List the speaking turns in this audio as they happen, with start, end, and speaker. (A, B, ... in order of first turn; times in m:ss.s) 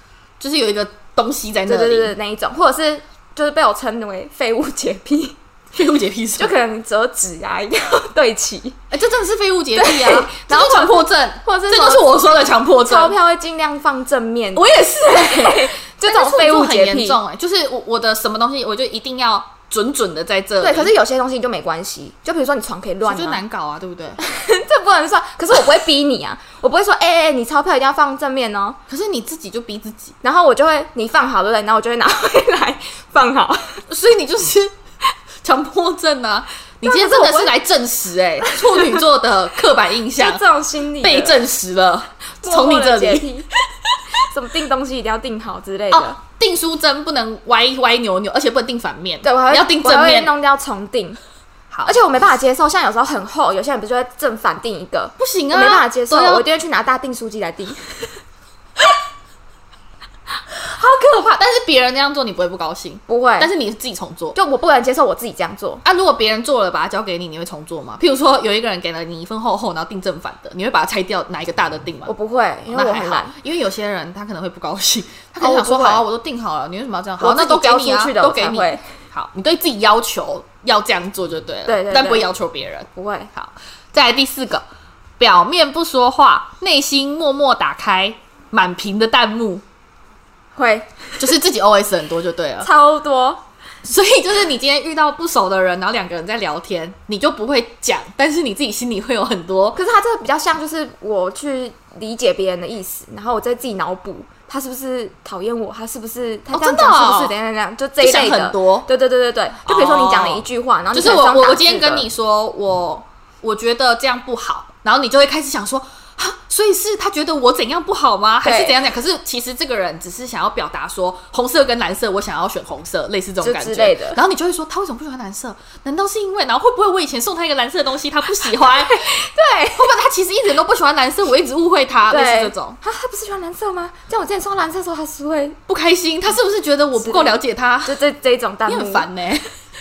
0:00.4-0:02.2 A
0:01.7-0:05.4 B
0:05.8-0:06.6 A
0:06.4-0:08.8 B
0:08.9-0:13.2 A
0:09.8-0:12.2 B
0:12.8-0:17.2 B
0:14.6-0:20.9 A
0:20.6-0:23.4 B
0:23.0-0:24.2 A
0:24.2-0:28.8 B
0:28.9-0:30.2 A
0:30.2-0:33.8 B
0:33.9-0:34.7 A
0:35.4-0:40.4 A
0:36.8-0:37.5 B
0:38.4-0:39.0 B
0:40.2-0:41.4 B
0:41.0-0:43.3 A
0:42.4-0:43.5 B
0:44.2-0:46.2 B
0:45.9-0:50.3 A
0:49.2-0:51.2 B
0:51.7-0:52.0 A
0:51.9-0:58.2 B
0:55.2-0:56.4 A
1:00.5-1:04.4 A
1:03.1-1:03.5 B
1:04.4-1:05.8 B
1:05.8-1:12.1 A
1:12.1-1:13.4 B
1:12.7-1:24.6 A
1:15.4-1:16.0 B
1:17.2-1:18.8 B
1:21.7-1:22.3 B
1:23.0-1:23.3 B
1:25.2-1:29.6 A
1:30.6-1:31.1 B
1:31.2-1:32.7 A
1:32.6-1:33.4 B
1:33.8-1:39.8 A
1:39.8-1:52.1 B
1:46.5-1:47.3 A
1:48.0-1:48.9 A
1:49.6-2:09.2 A
1:58.4-1:58.8 B
2:03.4-2:04.2 B
2:08.7-2:09.9 B
2:09.8-2:12.8 A
2:12.1-2:15.6 B
2:15.7-2:18.0 A
2:17.0-2:19.1 B
2:18.7-2:19.6 A